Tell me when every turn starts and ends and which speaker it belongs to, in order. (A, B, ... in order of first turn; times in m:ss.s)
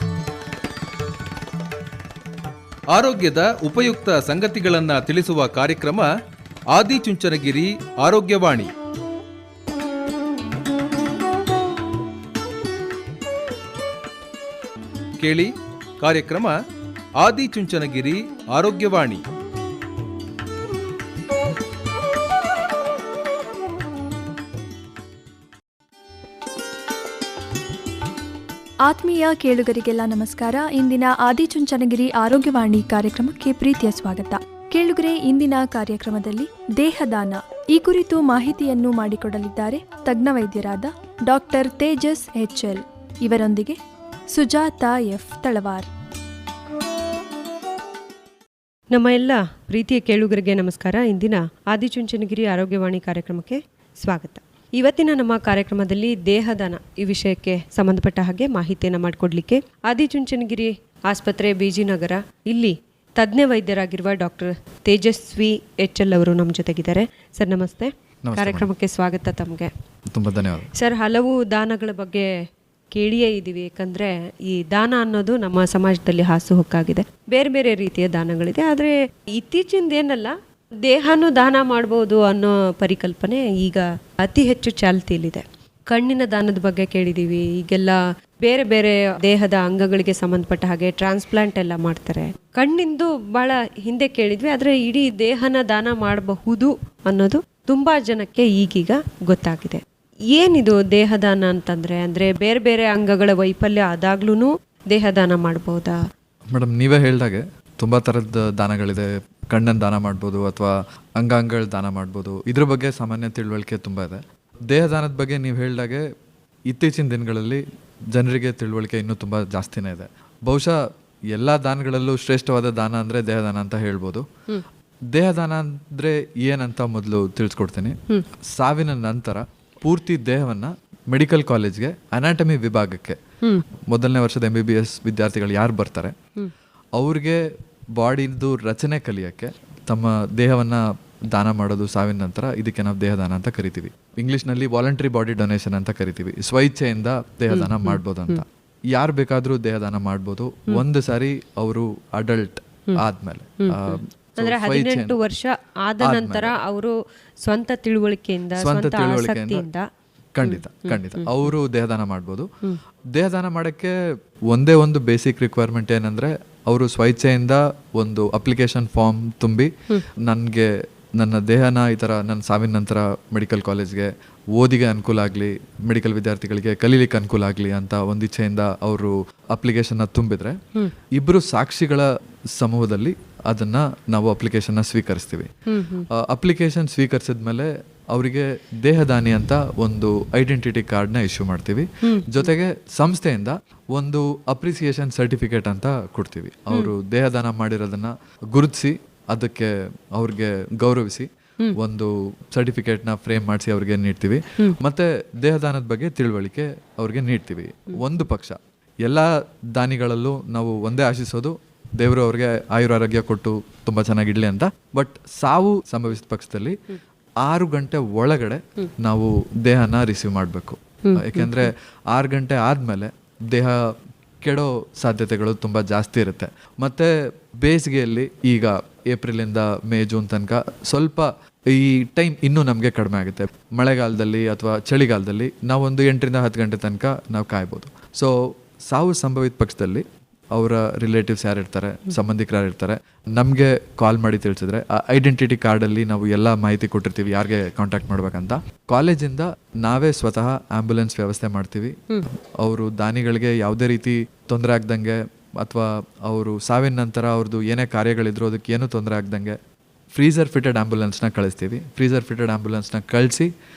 0:02.9-0:06.1 A
0:06.7-0:08.7 A
0:15.2-0:16.6 A
0:17.2-0:19.2 A
0:28.8-0:43.8 B
0:44.3-0:45.9 B
0:48.9-1:09.7 C
1:08.2-1:08.7 D
1:10.1-1:10.7 D
1:10.7-1:12.3 C
1:12.9-1:20.3 C
1:20.9-1:39.8 C
1:40.3-1:46.0 C
1:46.5-1:56.0 D
1:56.7-1:57.6 D
1:58.1-2:00.8 D
2:01.3-2:04.3 D
2:05.1-2:08.0 D
2:08.5-2:13.2 D
2:13.9-2:16.2 D
2:17.0-2:17.4 D
2:18.0-2:20.8 D
2:21.3-2:35.2 D
2:27.5-2:28.4 C
2:33.6-2:39.8 C
2:36.0-2:36.6 D
2:38.6-2:39.7 D
2:40.4-2:42.5 D
2:40.4-2:41.5 C
2:43.1-2:43.9 D
2:44.5-2:49.7 D
2:50.2-3:00.6 D
3:01.2-3:05.5 D
3:05.7-3:06.1 C
3:06.2-3:36.8 D
3:12.0-3:12.5 C
3:37.4-3:43.9 D
3:41.0-3:41.7 C
3:44.4-3:47.1 D
3:47.6-3:58.3 D
3:58.9-4:12.0 D
4:12.6-4:19.6 D
4:20.1-4:23.5 D